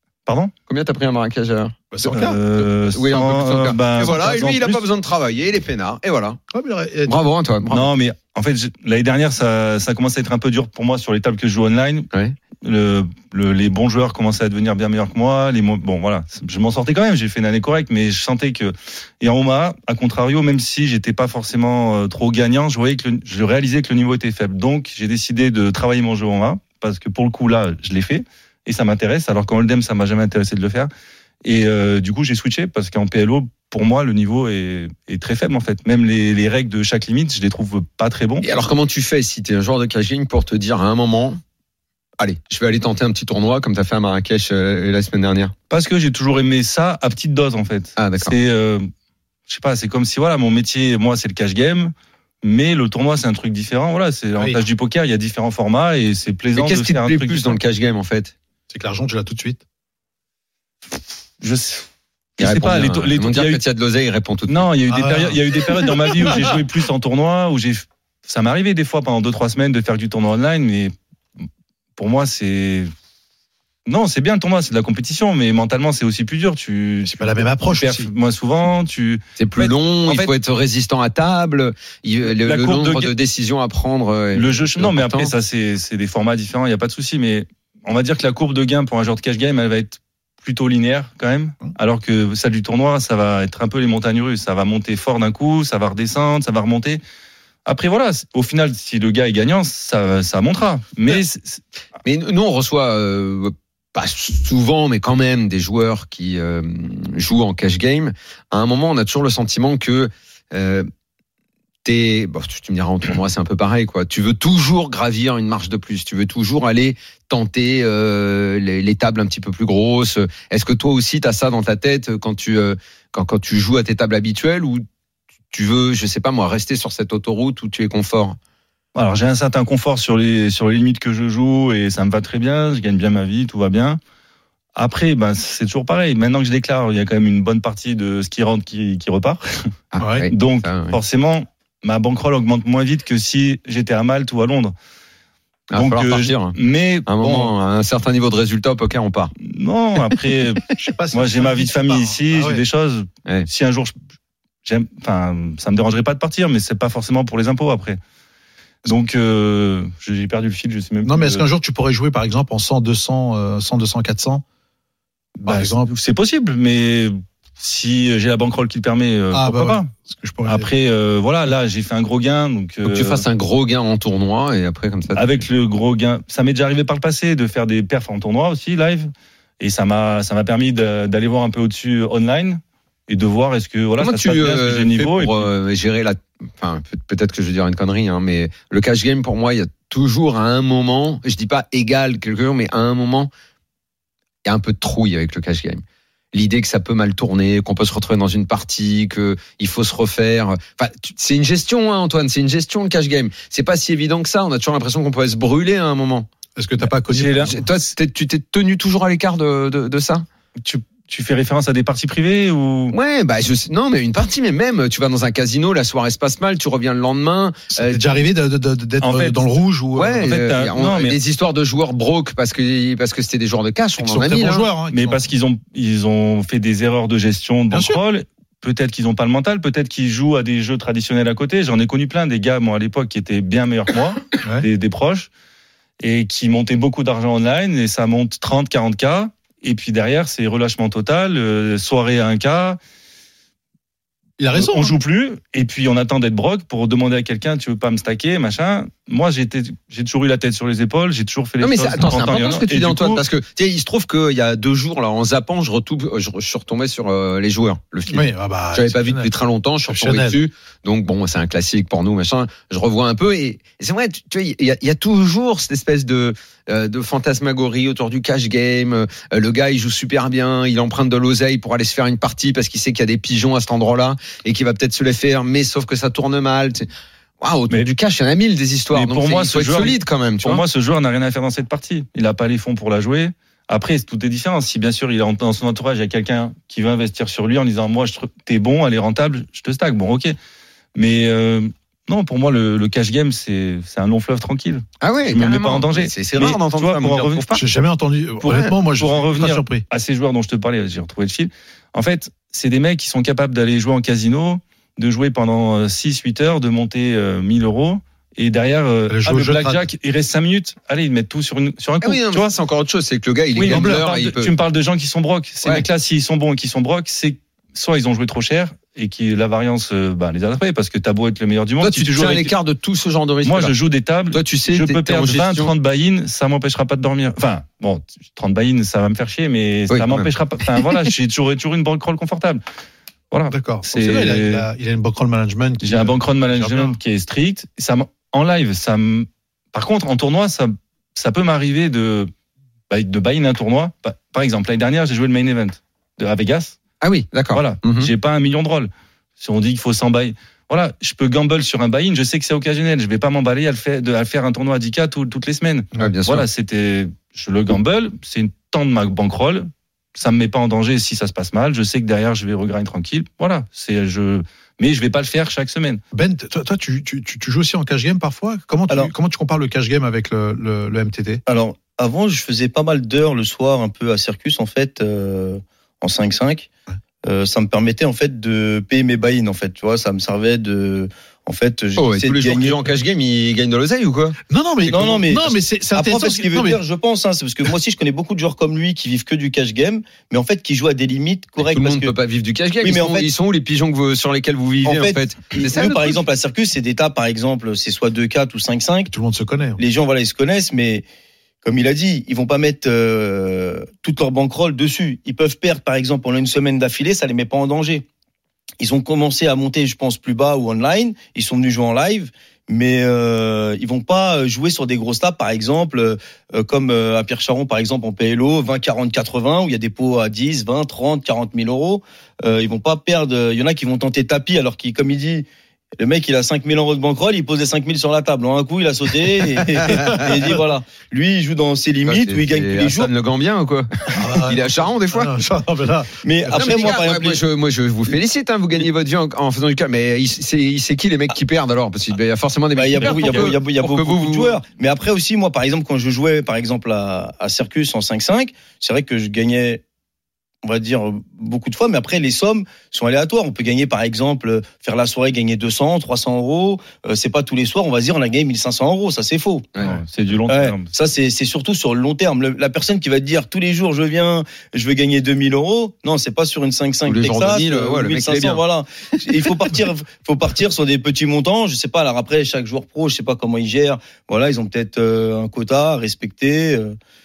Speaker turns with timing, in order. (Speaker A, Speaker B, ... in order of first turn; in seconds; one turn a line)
Speaker A: 0.3-0.5
Speaker B: 0.7-6.4
Speaker C: 1.9-2.4
Speaker A: 2.1-4.8
Speaker C: 6.5-7.1
Speaker B: 7.1-7.9
Speaker A: 7.7-12.1
Speaker A: 12.6-30.9
Speaker A: 31.4-38.5
Speaker B: 38.4-41.4
Speaker B: 42.2-45.5
Speaker A: 45.7-48.9
Speaker B: 48.0-48.4
Speaker A: 49.5-57.6
Speaker B: 56.5-58.4
Speaker C: 58.7-59.6
Speaker A: 61.4-61.9
Speaker A: 62.4-63.6
Speaker B: 62.4-64.7
Speaker A: 64.5-70.9
Speaker C: 64.9-66.6
Speaker A: 72.0-72.9
Speaker A: 73.9-80.3
Speaker C: 77.0-78.1
Speaker B: 79.4-85.3
Speaker A: 82.2-83.1
Speaker A: 84.3-97.0
Speaker A: 97.7-101.6
Speaker B: 102.0-110.9
Speaker B: 111.8-124.8
Speaker B: 125.5-128.4
Speaker A: 128.9-134.0
Speaker A: 134.8-139.4
Speaker B: 139.9-141.0
Speaker C: 140.0-140.3
Speaker A: 140.3-144.7
Speaker B: 145.7-146.6
Speaker A: 145.7-147.5
Speaker B: 147.1-149.3
Speaker A: 149.4-153.9
Speaker C: 150.8-152.6
Speaker A: 154.7-158.0
Speaker A: 158.8-161.4
Speaker C: 161.0-164.4
Speaker A: 165.4-169.9
Speaker C: 165.4-165.9
Speaker C: 169.3-170.7
Speaker A: 170.5-173.2
Speaker B: 172.8-175.4
Speaker A: 175.2-185.5
Speaker B: 184.0-193.3
Speaker B: 194.4-195.8
Speaker B: 196.3-206.3
Speaker C: 206.6-207.6
Speaker A: 207.1-207.7
Speaker B: 207.4-210.2
Speaker A: 210.6-212.9
Speaker B: 212.9-218.0
Speaker C: 217.7-220.3
Speaker A: 219.0-219.4
Speaker B: 220.0-224.7
Speaker A: 220.2-221.2
Speaker C: 224.0-225.2
Speaker A: 224.9-235.3
Speaker C: 227.7-228.0
Speaker A: 236.0-242.8
Speaker C: 244.4-244.9
Speaker A: 244.6-253.2
Speaker B: 251.6-276.9
Speaker C: 258.1-259.3
Speaker C: 259.9-260.4
Speaker B: 277.4-280.6
Speaker A: 278.9-290.4
Speaker A: 290.9-297.5
Speaker B: 295.0-297.6
Speaker C: 297.6-299.8
Speaker A: 298.4-312.5
Speaker C: 309.1-309.9
Speaker B: 312.0-314.5
Speaker A: 313.6-322.5
Speaker C: 313.6-314.0
Speaker B: 321.8-323.7
Speaker A: 323.4-332.6
Speaker B: 324.3-325.7
Speaker B: 329.9-330.9
Speaker A: 333.3-334.6
Speaker C: 333.5-337.0
Speaker A: 335.8-342.3
Speaker A: 342.9-346.8
Speaker B: 347.0-348.1
Speaker A: 347.5-366.0
Speaker B: 356.0-356.5
Speaker C: 366.1-371.4
Speaker D: 371.5-376.7
Speaker D: 377.2-382.8
Speaker B: 382.0-384.4
Speaker C: 384.5-386.8
Speaker D: 384.9-392.1
Speaker B: 391.6-396.2
Speaker D: 392.8-393.3
Speaker D: 394.8-399.1
Speaker C: 399.1-399.8
Speaker D: 399.8-401.1
Speaker D: 401.6-408.1
Speaker D: 408.8-425.5
Speaker D: 426.0-433.1
Speaker B: 432.1-435.3
Speaker C: 434.1-436.9
Speaker D: 436.2-437.4
Speaker B: 436.6-444.6
Speaker D: 442.8-449.8
Speaker A: 443.0-443.5
Speaker D: 450.6-459.7
Speaker A: 459.8-460.9
Speaker D: 460.5-477.0
Speaker B: 467.1-468.6